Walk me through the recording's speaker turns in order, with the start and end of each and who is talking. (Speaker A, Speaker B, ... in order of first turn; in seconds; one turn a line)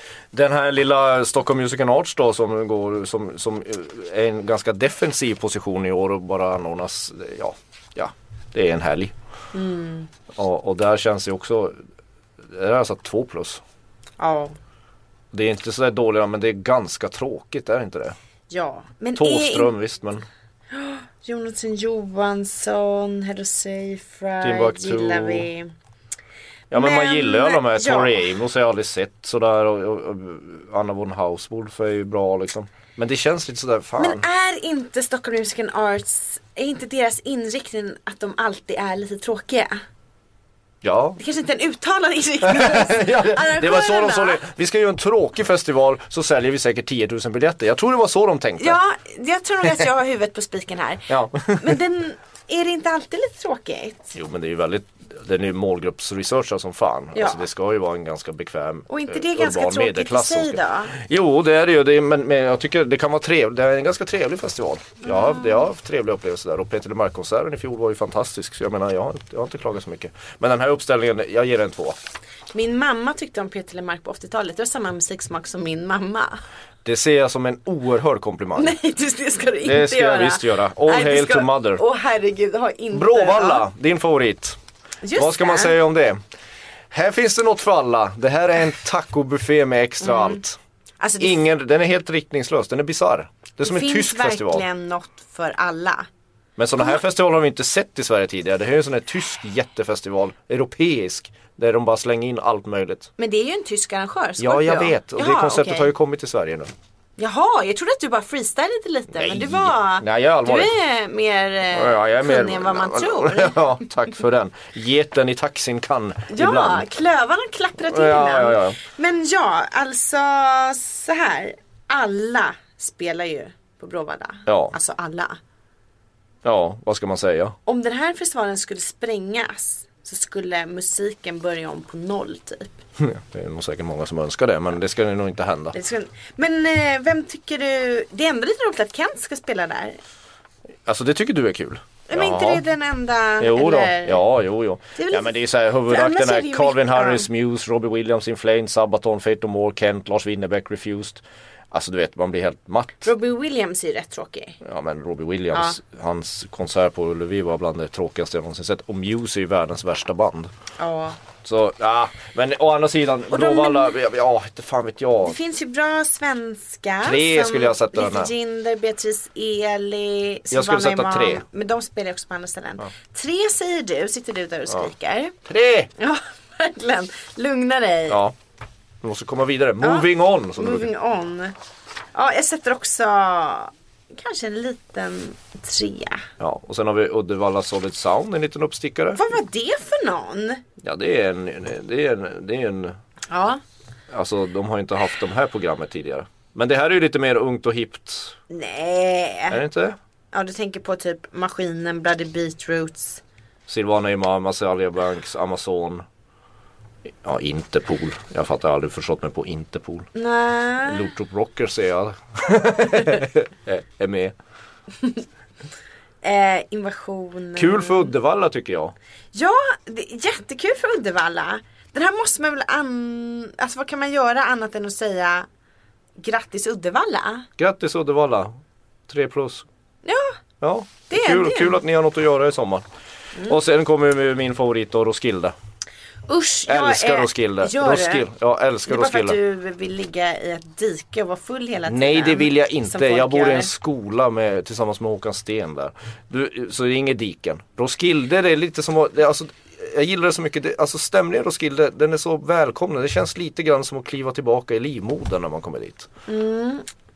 Speaker A: 0.3-9.1
Speaker B: 9.5-10.1
Speaker A: 10.3-11.8
Speaker A: 12.5-13.6
Speaker B: 14.2-14.6
Speaker A: 15.3-18.2
Speaker B: 18.5-19.7
Speaker A: 19.2-20.3
Speaker B: 20.7-25.7
Speaker A: 24.4-25.5
Speaker A: 26.7-34.2
Speaker B: 26.7-28.3
Speaker B: 34.0-39.8
Speaker A: 40.8-41.2
Speaker B: 41.2-44.4
Speaker A: 42.4-48.8
Speaker B: 48.6-54.1
Speaker A: 51.1-51.8
Speaker A: 54.1-72.0
Speaker B: 57.1-57.4
Speaker B: 58.9-60.9
Speaker B: 65.0-65.7
Speaker B: 72.5-76.4
Speaker A: 76.8-78.8
Speaker B: 78.6-83.7
Speaker A: 79.6-81.8
Speaker A: 82.9-84.6
Speaker B: 85.0-85.8
Speaker A: 85.2-86.2
Speaker A: 86.9-90.6
Speaker B: 90.0-90.4
Speaker B: 91.0-91.4
Speaker A: 91.2-94.7
Speaker B: 93.6-96.1
Speaker A: 96.6-103.1
Speaker B: 103.2-105.9
Speaker A: 104.4-106.7
Speaker B: 107.2-113.6
Speaker A: 109.1-110.7
Speaker A: 111.7-116.9
Speaker B: 116.3-125.4
Speaker A: 117.8-118.8
Speaker A: 124.5-124.7
Speaker A: 126.4-127.6
Speaker B: 127.7-132.8
Speaker A: 133.0-135.8
Speaker B: 135.7-140.0
Speaker A: 140.9-142.6
Speaker B: 142.1-144.2
Speaker A: 143.4-153.1
Speaker B: 145.0-147.3
Speaker B: 153.0-154.6
Speaker A: 154.6-160.5
Speaker B: 155.5-155.8
Speaker B: 160.8-161.2
Speaker A: 161.4-165.4
Speaker B: 163.3-163.9
Speaker B: 165.2-175.4
Speaker A: 167.0-168.3
Speaker A: 170.5-171.4
Speaker A: 175.5-175.9
Speaker B: 176.0-178.2
Speaker A: 178.1-178.3
Speaker A: 179.0-180.9
Speaker B: 179.8-181.6
Speaker B: 182.1-186.3
Speaker A: 186.4-189.2
Speaker B: 189.2-190.6
Speaker A: 190.8-193.0
Speaker B: 193.3-193.6
Speaker A: 194.1-198.4
Speaker B: 198.5-199.6
Speaker A: 199.5-200.0
Speaker B: 200.3-203.2
Speaker A: 203.7-206.1
Speaker A: 207.2-210.1
Speaker B: 210.2-211.1
Speaker A: 210.8-214.4
Speaker B: 216.2-218.1
Speaker A: 217.6-218.9
Speaker B: 219.3-225.5
Speaker B: 226.2-227.5
Speaker A: 227.6-229.7
Speaker B: 230.1-230.4
Speaker A: 230.6-232.9
Speaker B: 231.1-231.8
Speaker A: 233.4-235.6
Speaker B: 236.3-238.3
Speaker A: 236.7-239.4
Speaker B: 238.9-243.7
Speaker A: 241.9-256.1
Speaker B: 256.3-256.9